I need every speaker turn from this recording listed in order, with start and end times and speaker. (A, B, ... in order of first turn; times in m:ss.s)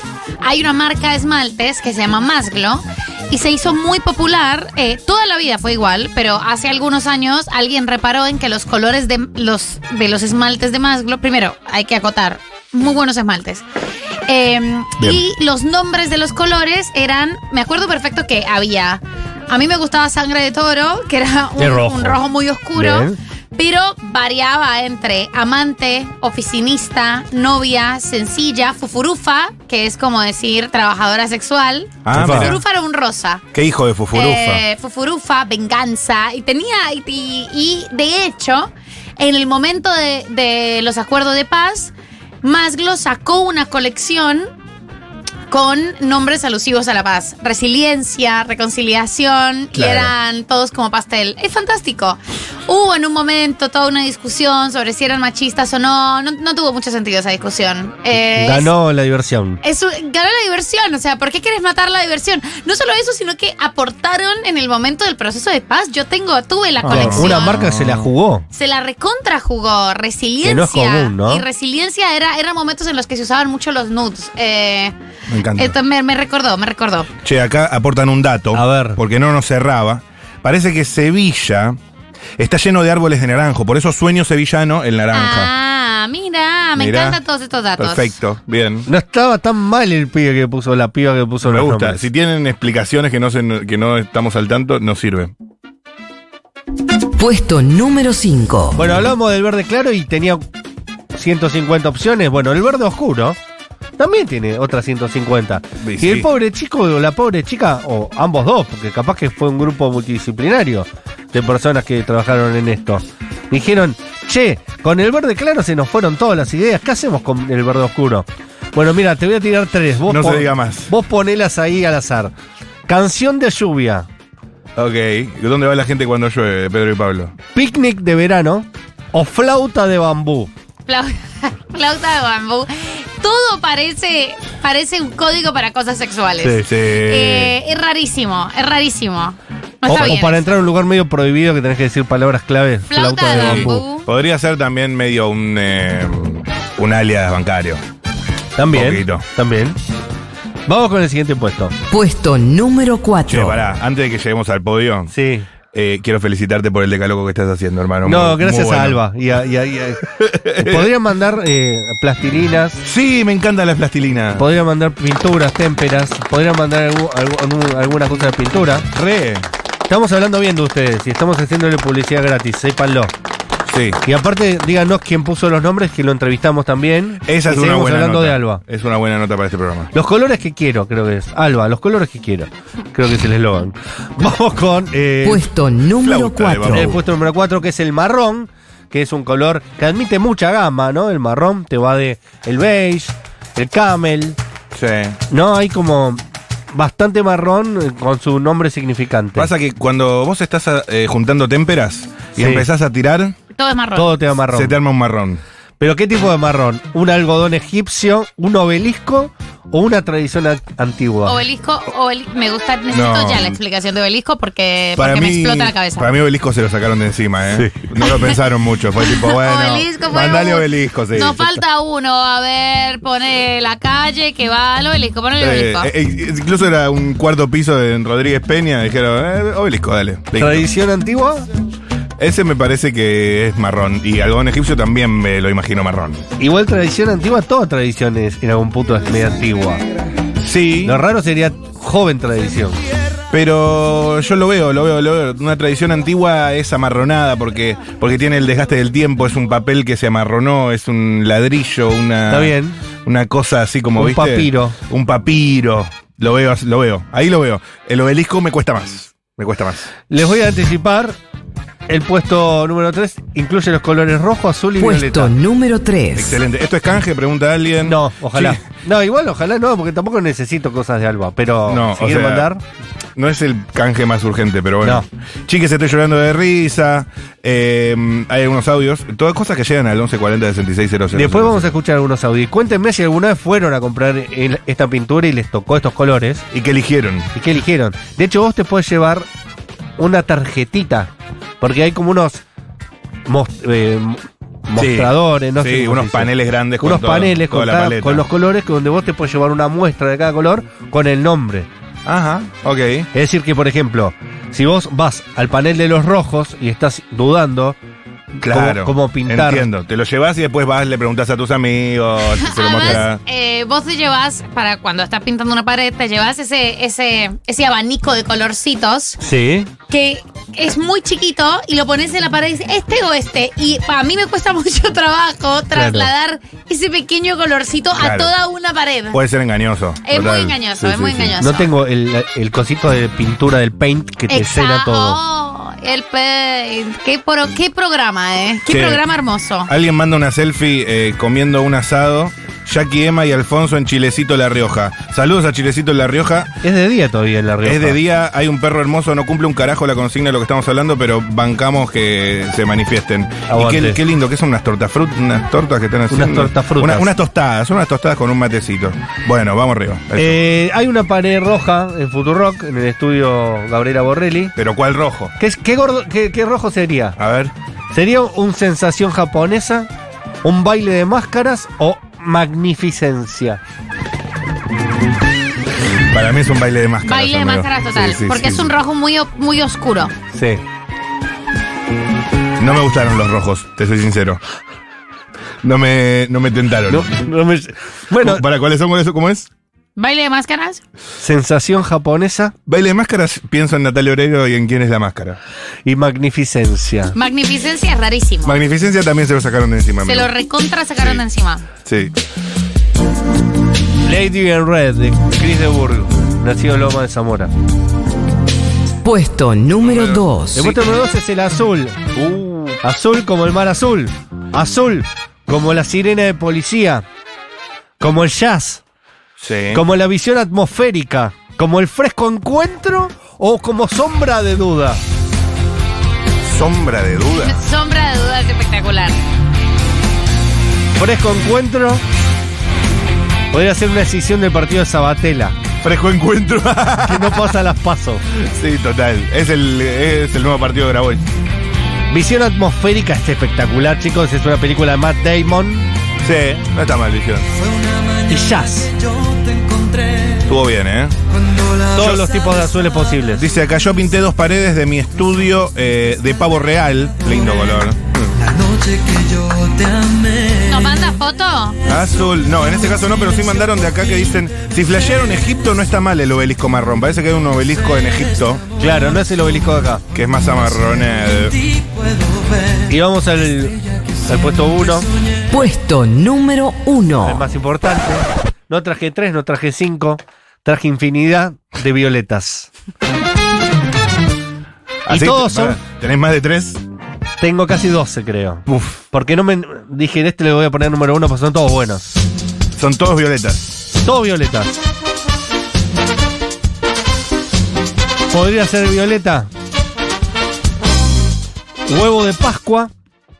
0:00.4-0:13.6 A
0:14.3-0:33.4 A
0:21.6-0:22.2 B
0:22.8-0:23.2 B
0:32.0-0:32.6 C
0:32.1-0:32.5 B
0:33.5-0:34.6 C
0:34.1-0:44.5 A
0:45.5-0:58.7 A
0:49.7-0:50.1 C
0:58.4-0:59.6 B
0:59.6-1:07.7 A
1:06.8-1:08.1 C
1:06.9-1:08.5 B
1:08.5-1:14.9 A
1:10.4-1:11.4 B
1:15.3-1:15.8 C
1:15.5-1:17.1 A
1:17.2-1:21.8 C
1:18.5-1:19.0 B
1:22.4-1:25.5 C
1:25.1-1:28.1 A
1:26.8-1:27.2 C
1:27.8-1:28.9 C
1:28.9-1:32.0 B
1:31.4-1:35.3 C
1:37.2-1:38.9 D
1:38.8-1:40.4 B
1:41.1-1:43.4 B
1:44.0-2:02.3 B
1:45.8-1:46.3 C
2:00.1-2:00.9 C
2:02.9-2:04.1 B
2:04.8-2:07.3 C
2:07.5-2:10.5 B
2:10.9-2:20.6 A
2:16.6-2:17.6 C
2:19.9-2:23.8 B
2:19.9-2:20.2 C
2:22.9-2:24.1 A
2:23.3-2:27.8 C
2:28.6-2:29.8 B
2:28.7-2:29.2 C
2:30.7-2:31.8 B
2:31.9-2:33.6 D
2:33.3-2:35.1 C
2:35.1-2:35.5 B
2:35.7-2:39.0 C
2:38.0-2:42.8 B
2:40.2-2:40.9 C
2:42.8-2:44.5 C
2:44.4-2:48.9 B
2:48.9-2:49.5 C
2:49.9-2:53.1 B
2:53.6-2:54.0 C
2:54.0-2:58.6 B
2:57.2-2:59.9 C
2:59.9-3:05.5 B
3:05.2-3:06.9 D
3:06.0-3:07.0 C
3:06.6-3:14.4 B
3:14.7-3:15.2 C
3:15.3-3:19.5 B
3:19.4-3:23.4 C
3:22.4-3:22.7 B
3:23.6-3:24.2 A
3:24.0-3:24.8 B
3:24.5-3:25.4 C
3:25.8-3:31.4 B
3:31.3-3:36.1 A
3:32.9-3:33.4 C
3:35.0-3:41.6 C
3:37.6-3:37.8 B
3:39.0-3:45.9 A
3:45.4-3:50.7 C
3:50.4-3:51.5 B
3:52.2-3:56.3 C
3:56.4-3:59.8 B
4:00.4-4:01.0 C
4:00.8-4:02.8 B
4:03.3-4:19.9 C
4:12.3-4:12.8 B
4:14.0-4:14.8 B
4:20.1-4:21.2 B
4:21.9-4:25.3 B
4:24.8-4:26.4 D
4:26.1-4:28.6 C
4:27.8-4:32.6 B
4:31.7-4:32.5 C
4:33.2-4:41.8 C
4:34.8-4:35.1 B
4:41.1-4:46.5 B
4:46.5-4:47.3 C
4:47.3-4:49.3 B
4:50.0-4:52.4 B
4:53.3-4:56.3 B
4:54.8-4:58.2 C
4:56.8-5:01.7 B
5:02.1-5:03.1 C
5:03.1-5:07.8 B
5:08.4-5:09.7 B
5:08.4-5:13.2 C
5:12.4-5:19.2 A
5:19.2-5:19.7 B
5:19.9-5:29.2 A
5:25.7-5:26.1 B
5:28.0-5:28.3 C
5:29.1-5:31.4 C
5:30.0-5:31.7 A
5:31.4-5:35.2 B
5:34.3-5:39.7 A
5:38.7-5:39.0 C
5:39.6-5:46.6 C
5:46.6-5:48.0 B
5:47.6-6:00.4 C
5:53.5-5:54.0 B
5:56.1-5:57.1 B
6:00.2-6:04.5 B
6:04.6-6:05.3 C
6:05.4-6:07.2 B
6:07.2-6:07.5 C
6:07.9-6:09.9 B
6:10.4-6:13.6 B
6:16.1-6:18.7 C
6:17.0-6:20.1 A
6:20.3-6:20.6 B
6:22.6-6:24.4 C
6:25.6-6:27.2 C
6:26.9-6:28.4 B
6:28.1-6:29.5 C
6:30.0-6:30.8 A
6:31.2-6:32.5 B
6:32.6-6:35.4 C
6:35.8-6:37.2 B
6:37.1-6:38.6 A
6:38.4-6:40.3 C
6:40.0-6:41.7 A
6:41.0-6:41.2 C
6:41.8-6:42.1 C
6:44.0-6:47.5 B
6:49.0-6:50.8 D
6:49.8-6:50.6 C
6:50.5-6:52.1 B
6:52.1-6:52.8 C
6:52.8-6:57.0 B
6:58.0-6:58.8 B
6:59.4-6:59.8 C
6:59.7-7:05.0 B
7:06.4-7:07.6 C
7:07.4-7:09.2 A
7:10.9-7:12.0 B
7:13.5-7:15.6 B
7:15.8-7:17.6 C
7:17.0-7:18.2 B
7:18.3-7:21.3 C
7:22.1-7:25.9 B
7:26.2-7:27.5 C
7:28.3-7:28.9 B
7:30.3-7:31.2 C
7:31.9-7:33.5 B
7:31.9-7:32.3 C
7:33.4-7:38.4 C
7:40.6-7:41.8 A
7:41.9-7:48.7 C
7:48.8-7:50.0 B
7:50.1-7:51.6 C
7:52.8-7:55.1 B
7:55.5-7:57.4 D
7:57.2-8:02.7 B
8:05.1-8:06.8 C
8:05.1-8:05.8 B
8:07.4-8:12.2 B
8:08.6-8:09.0 C
8:12.8-8:13.8 C
8:14.0-8:14.8 B
8:18.3-8:19.5 B
8:21.9-8:22.9 B